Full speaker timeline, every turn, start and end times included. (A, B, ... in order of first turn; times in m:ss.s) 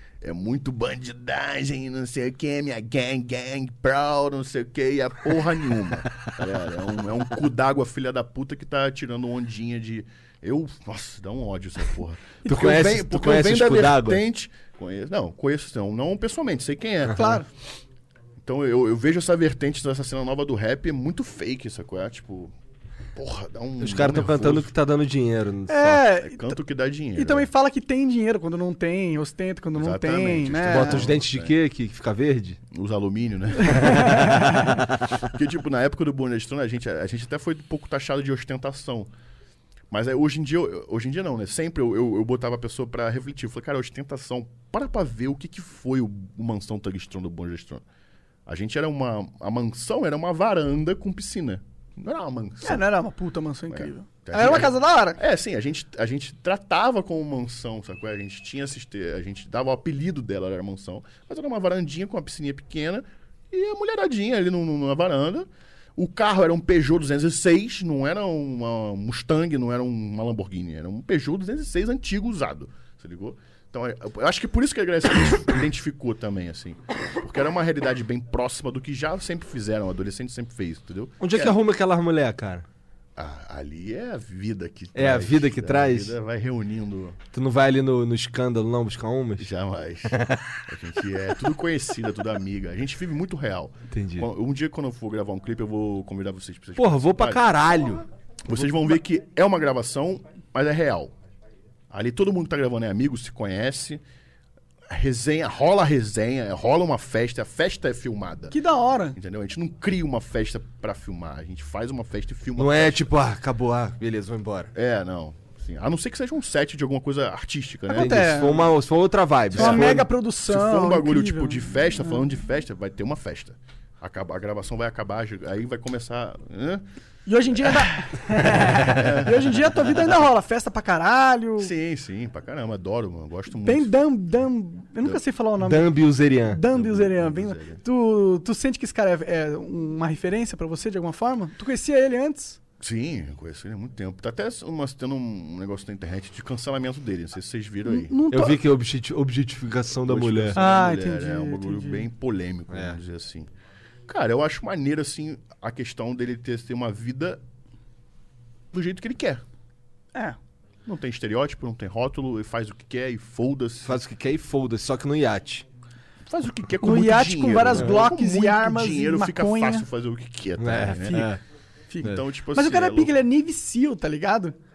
0:00.2-0:17.5 A
0:12.4-0:14.2 B
0:17.1-0:17.5 C
0:18.4-0:22.5 A
0:23.1-0:24.7 A
0:23.8-0:26.0 B
0:25.7-0:26.6 C
0:26.1-0:27.5 A
0:27.2-0:31.0 C
0:29.7-0:31.5 A
0:30.6-0:32.6 B
0:32.7-0:39.1 A
0:33.6-0:34.8 C
0:33.8-0:34.7 B
0:39.9-0:47.8 A
0:48.4-0:52.8 A
0:52.6-0:55.2 C
0:53.7-1:21.6 A
1:21.2-1:22.7 B
1:23.2-1:27.2 A
1:25.0-1:26.2 B
1:27.3-1:29.5 B
1:29.4-1:37.4 A
1:30.1-1:30.6 B
1:33.9-1:34.3 B
1:36.8-1:38.1 B
1:38.4-1:41.1 A
1:41.9-1:44.0 A
1:44.9-1:48.5 A
1:48.5-1:49.2 C
1:49.1-1:53.1 A
1:52.6-1:54.7 B
1:54.7-1:58.6 A
1:57.9-1:58.7 C
1:57.9-2:00.1 B
1:59.5-2:06.8 A
1:59.6-2:02.2 C
2:07.3-2:11.7 C
2:07.6-2:07.9 A
2:08.4-2:09.8 A
2:11.6-2:13.9 A
2:13.6-2:22.6 C
2:15.6-2:16.6 B
2:16.7-2:17.8 A
2:22.8-2:28.2 A
2:27.9-2:28.6 C
2:28.3-2:30.6 B
2:30.0-2:33.5 A
2:30.6-2:32.0 C
2:32.7-2:33.0 B
2:34.1-2:37.4 A
2:38.7-2:39.4 A
2:40.9-2:44.0 A
2:43.8-2:45.7 B
2:46.3-2:51.3 A
2:46.8-2:49.9 C
2:50.6-2:51.4 B
2:51.9-2:54.6 C
2:52.0-2:53.1 A